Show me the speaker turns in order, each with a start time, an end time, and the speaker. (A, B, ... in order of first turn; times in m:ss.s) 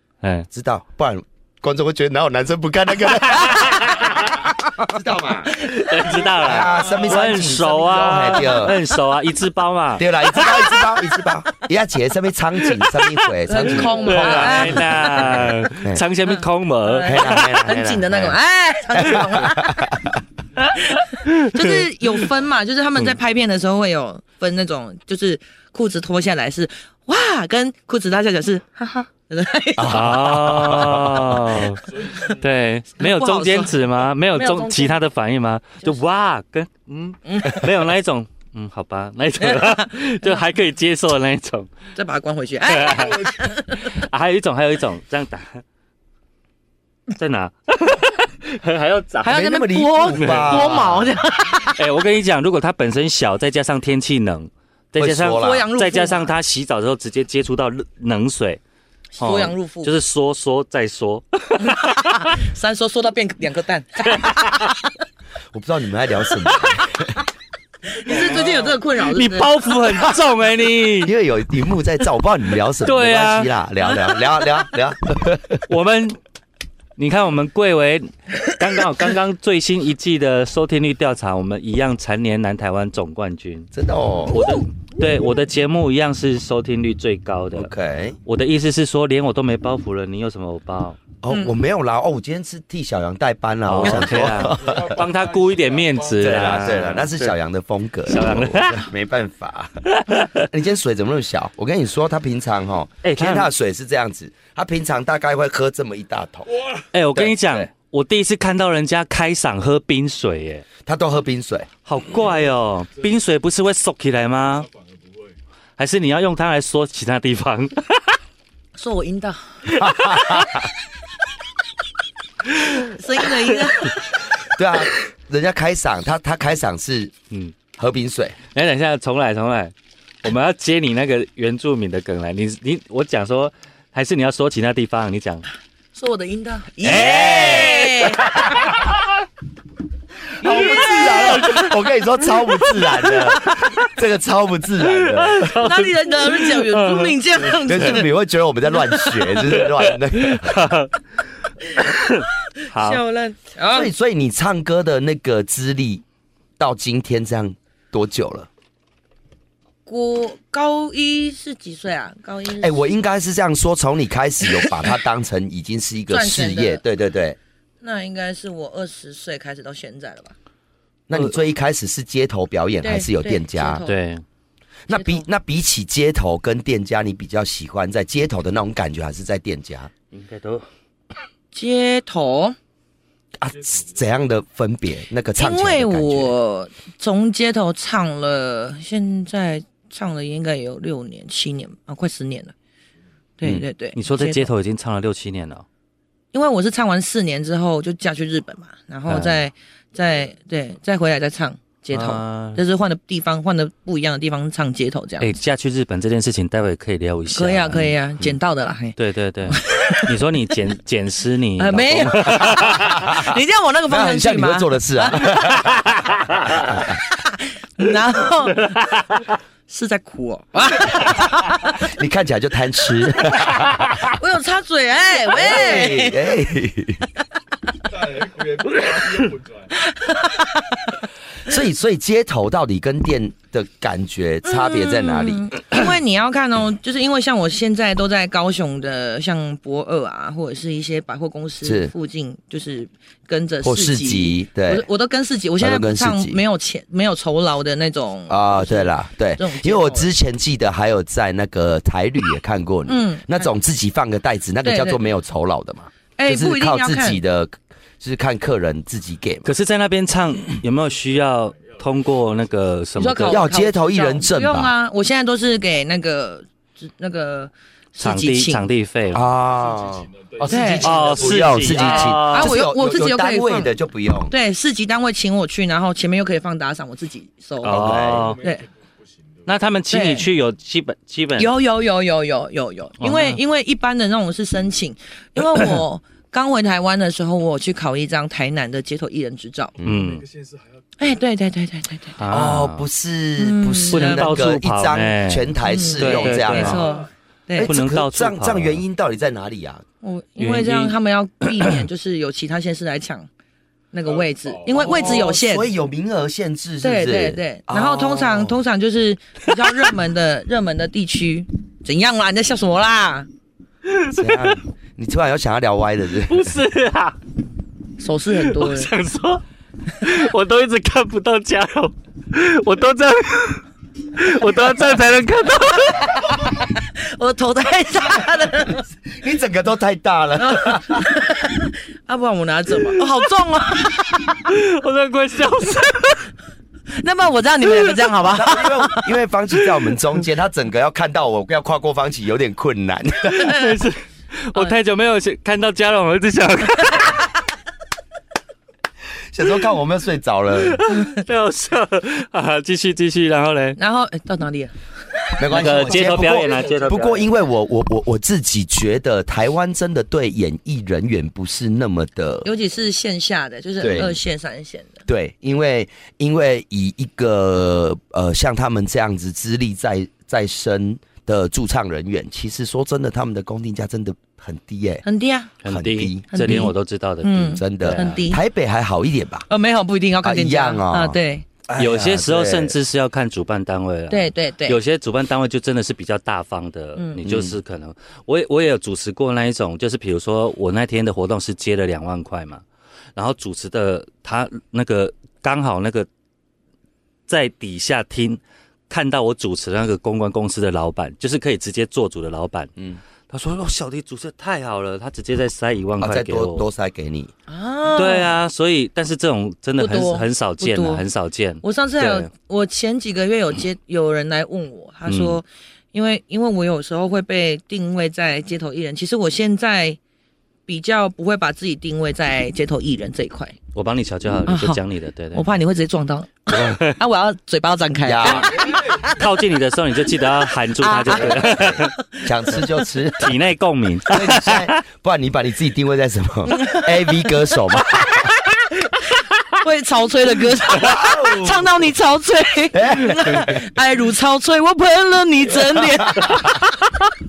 0:00.2-0:00.5 A
0:00.5-0:05.7 B
0:03.3-0:04.1 A
0:05.7-0:06.2 C
0:05.7-0:10.1 A
0:06.4-0:08.8 B
0:06.5-0:07.3 D
0:10.0-0:16.0 B
0:10.4-0:10.8 C
0:13.4-0:15.7 C
0:13.6-0:17.7 A
0:16.3-0:19.9 C
0:17.0-0:18.4 B
0:18.9-0:20.2 B
0:20.8-0:30.1 C
0:21.2-0:22.1 A
0:29.8-0:31.6 B
0:29.9-0:31.8 A
0:31.8-0:32.5 D
0:32.4-0:41.7 A
0:33.0-0:35.0 C
0:37.2-0:37.7 C
0:39.4-0:40.4 C
0:42.0-0:43.9 C
0:42.7-0:45.6 A
0:42.9-0:43.4 D
0:47.1-0:49.4 A
0:49.2-0:51.8 C
0:49.2-0:51.1 B
0:50.0-0:51.1 A
0:51.7-0:58.6 A
0:55.0-0:55.7 B
0:55.4-0:56.3 C
0:59.2-0:59.9 C
0:59.2-1:02.2 A
1:01.6-1:04.8 C
1:05.5-1:07.2 B
1:07.9-1:09.7 C
1:07.9-1:08.8 D
1:09.0-1:11.1 A
1:11.0-1:15.7 B
1:12.8-1:13.5 A
1:15.7-1:16.2 A
1:17.0-1:23.7 A
1:23.7-1:24.5 B
1:24.3-1:27.7 A
1:27.6-1:28.2 B
1:28.3-1:31.0 A
1:31.2-1:35.0 B
1:33.7-1:37.3 A
1:33.8-1:37.1 D
1:36.2-1:46.5 B
1:38.1-1:38.9 A
1:39.9-1:40.4 A
1:43.0-1:43.5 A
1:46.5-1:46.9 D
1:46.9-1:50.6 A
1:47.1-1:47.7 B
1:50.8-1:51.7 B
1:51.8-1:54.7 A
1:54.4-1:55.4 D
1:55.8-1:58.2 A
1:58.8-1:59.8 C
1:59.7-2:00.7 B
1:59.8-2:00.4 A
2:02.7-2:04.3 C
2:04.5-2:07.1 B
2:07.8-2:08.4 B
2:08.5-2:15.4 A
2:16.0-2:18.3 C
2:16.8-2:18.9 B
2:16.8-2:17.9 A
2:20.4-2:21.7 C
2:20.4-2:25.6 B
2:20.5-2:21.7 A
2:23.0-2:23.7 A
2:24.8-2:27.7 A
2:25.5-2:28.1 C
2:27.7-2:30.7 B
2:29.3-2:30.9 A
2:31.8-2:33.0 A
2:32.6-2:33.9 C
2:33.7-2:36.0 B
2:36.6-2:38.5 B
2:39.9-2:42.8 C
2:42.6-2:47.4 B
2:46.1-2:46.8 C
2:47.8-2:50.4 C
2:51.1-2:53.8 B
2:52.8-2:54.0 C
2:53.9-2:54.2 A
2:54.9-2:59.9 B
2:54.9-2:55.3 C
3:00.1-3:00.7 A
3:01.5-3:02.6 C
3:03.4-3:06.3 B
3:03.5-3:04.4 D
3:05.4-3:12.5 C
3:13.4-3:14.5 C
3:14.0-3:15.6 A
3:16.3-3:25.3 C
3:19.1-3:19.4 A
3:21.9-3:22.6 A
3:25.2-3:27.9 A
3:27.4-3:29.0 C
3:29.0-3:32.9 A
3:29.5-3:30.1 C
3:31.6-3:35.7 C
3:32.9-3:33.3 B
3:33.9-3:37.0 B
3:37.2-3:39.0 C
3:39.7-3:41.8 C
3:41.8-3:44.0 B
3:44.1-3:46.3 C
3:45.3-3:47.0 B
3:47.9-3:49.8 D
3:49.9-3:50.9 C
3:51.4-3:55.5 B
3:54.4-4:10.1 C
4:01.6-4:01.9 B
4:03.6-4:04.9 B
4:05.6-4:06.4 B
4:08.3-4:19.5 B
4:12.9-4:13.5 C
4:14.6-4:15.0 C
4:16.2-4:17.2 C
4:19.4-4:23.4 A
4:20.8-4:22.6 D
4:23.0-4:28.7 C
4:23.3-4:24.7 B
4:28.0-4:29.2 A
4:29.1-4:31.8 D
4:29.1-4:34.3 B
4:30.5-4:30.9 C
4:30.8-4:32.6 A
4:31.7-4:33.7 C
4:34.3-4:37.9 C
4:37.6-4:38.4 A
4:37.7-4:38.2 B
4:38.0-4:39.6 D
4:39.5-4:41.5 A
4:39.9-4:40.3 C
4:41.4-4:49.7 C
4:43.0-4:43.4 A
4:49.8-4:50.9 D
4:49.8-4:50.2 A
4:51.0-4:52.2 C
4:52.2-4:52.9 A
4:52.3-4:56.9 B
4:53.4-4:54.4 C
4:53.9-4:56.8 A
4:55.6-4:57.7 C
4:56.2-4:57.1 D
4:57.6-4:58.8 A
4:57.6-4:59.8 B
5:00.0-5:03.3 C
5:00.4-5:01.8 A
5:03.9-5:05.7 C
5:04.0-5:05.4 D
5:04.8-5:08.6 B
5:06.8-5:13.3 C
5:13.8-5:14.6 A
5:14.2-5:16.6 B
5:16.3-5:17.2 A
5:18.0-5:18.9 C
5:18.3-5:19.4 A
5:19.9-5:26.2 A
5:25.9-5:28.9 C
5:29.0-5:31.1 B
5:30.4-5:34.4 C
5:34.4-5:36.3 A
5:37.0-5:39.1 C
5:37.7-5:38.0 A
5:38.3-5:43.6 B
5:43.3-5:47.3 A
5:49.3-5:50.8 B
5:50.6-5:53.8 A
5:53.8-5:54.8 C
5:55.4-6:02.5 B
5:55.4-5:57.3 A
5:55.7-5:57.3 D
6:02.4-6:05.0 C
6:03.8-6:04.2 B
6:05.1-6:15.0 B
6:15.0-6:15.5 C
6:15.6-6:16.7 B
6:15.6-6:18.2 A
6:16.3-6:18.4 C
6:17.3-6:19.5 B
6:19.5-6:21.4 C
6:20.2-6:22.8 B
6:21.8-6:32.6 A
6:24.1-6:24.8 C
6:27.0-6:27.2 C
6:27.2-6:27.6 B
6:33.2-6:36.1 A
6:37.3-6:42.7 A
6:43.3-6:46.6 A
6:46.0-6:47.3 B
6:47.5-6:48.4 C
6:48.0-6:52.3 A
6:49.8-6:51.0 C
6:51.6-7:00.0 C
6:55.1-6:55.4 A
7:00.7-7:03.6 C
7:03.7-7:05.5 A
7:04.5-7:04.8 C
7:05.3-7:09.2 C
7:06.5-7:07.0 A
7:08.0-7:08.6 B
7:08.2-7:09.5 D
7:09.1-7:11.9 A
7:10.8-7:12.6 C
7:11.1-7:13.4 B
7:13.2-7:14.8 A
7:14.1-7:18.3 B
7:16.5-7:17.3 C
7:17.8-7:19.0 C
7:19.6-7:26.6 C
7:20.7-7:21.7 B
7:22.7-7:23.6 B
7:25.9-7:26.4 B